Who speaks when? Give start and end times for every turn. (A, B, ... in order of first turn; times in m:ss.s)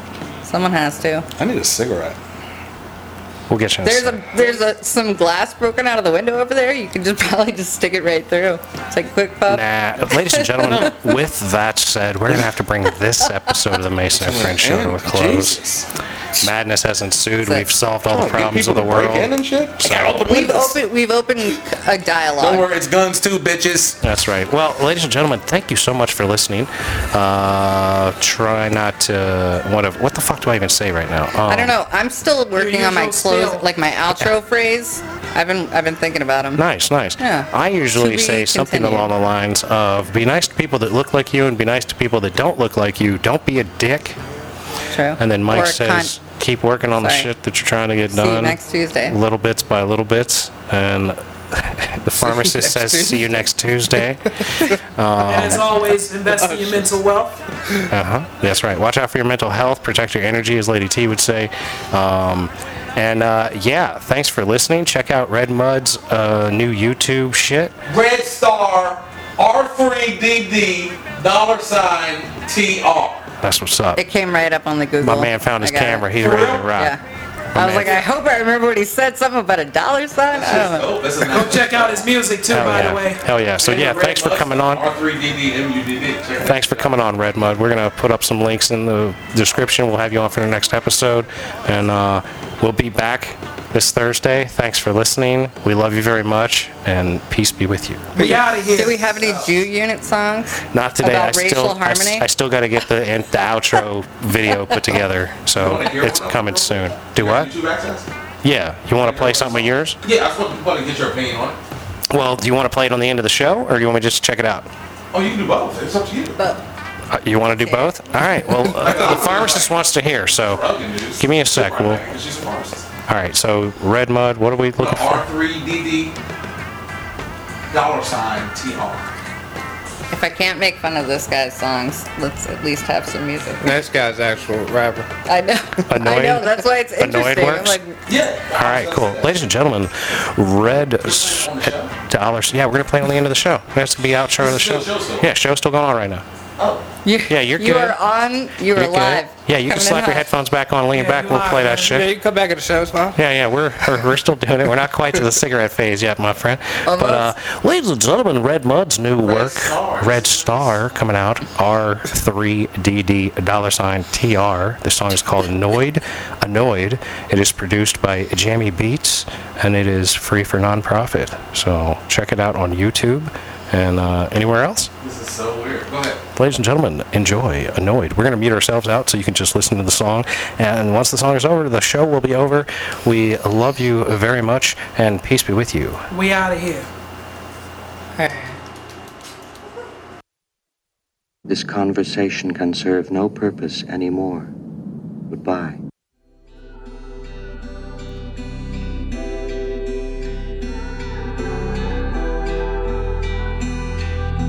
0:00.4-0:01.3 A
0:01.4-0:02.2 B
0:03.5-0:04.2 C
0:03.8-0:11.2 A
0:09.5-0:15.6 C
0:10.6-0:10.9 B
0:14.1-0:15.9 B
0:16.4-0:20.3 C
0:17.4-0:17.7 A
0:18.1-0:20.8 B
0:20.3-0:22.7 A
0:22.4-0:24.0 B
0:24.0-0:31.7 C
0:31.5-0:36.6 A
0:32.6-0:33.7 D
0:36.6-0:44.2 C
0:37.2-0:39.1 A
0:44.9-0:46.2 A
0:45.2-0:48.6 C
0:46.9-0:47.3 A
0:48.1-0:49.2 A
0:49.1-0:55.7 C
0:52.2-0:53.5 E
0:55.2-0:57.4 D
0:56.3-0:56.8 E
0:57.9-1:07.8 C
1:07.9-1:13.3 B
1:13.4-1:14.0 C
1:14.0-1:16.1 A
1:15.0-1:17.0 C
1:16.2-1:16.7 B
1:16.8-1:17.0 A
1:17.6-1:18.0 C
1:17.6-1:20.9 A
1:20.3-1:22.1 B
1:21.3-1:23.2 D
1:22.5-1:24.8 C
1:23.6-1:26.9 B
1:26.4-1:38.3 C
1:38.2-1:39.0 D
1:38.2-1:42.3 A
1:38.8-1:39.5 B
1:40.7-1:47.5 C
1:44.5-1:44.8 A
1:45.5-1:48.1 B
1:48.4-1:50.0 C
1:48.9-1:51.6 B
1:52.1-1:54.7 C
1:55.1-1:56.4 B
1:56.4-1:56.6 A
1:57.1-2:00.7 C
1:57.6-1:57.9 A
1:58.7-1:59.8 B
2:00.4-2:02.9 B
2:01.2-2:02.0 C
2:03.1-2:05.2 C
2:04.8-2:06.2 B
2:07.7-2:09.1 B
2:10.1-2:13.8 A
2:13.6-2:15.1 E
2:15.3-2:18.0 A
2:15.9-2:17.8 C
2:18.1-2:19.4 B
2:18.5-2:26.2 C
2:21.0-2:21.9 B
2:24.4-2:25.3 B
2:26.6-2:26.9 B
2:27.0-2:30.3 A
2:27.3-2:28.0 C
2:28.7-2:32.1 C
2:30.9-2:32.0 D
2:31.9-2:33.2 E
2:33.2-2:54.9 C
2:36.9-2:37.3 A
2:39.2-2:40.9 B
2:55.0-2:56.2 B
2:56.4-3:06.0 C
3:06.1-3:06.9 D
3:08.2-3:08.6 A
3:11.5-3:14.5 F
3:15.3-3:15.8 F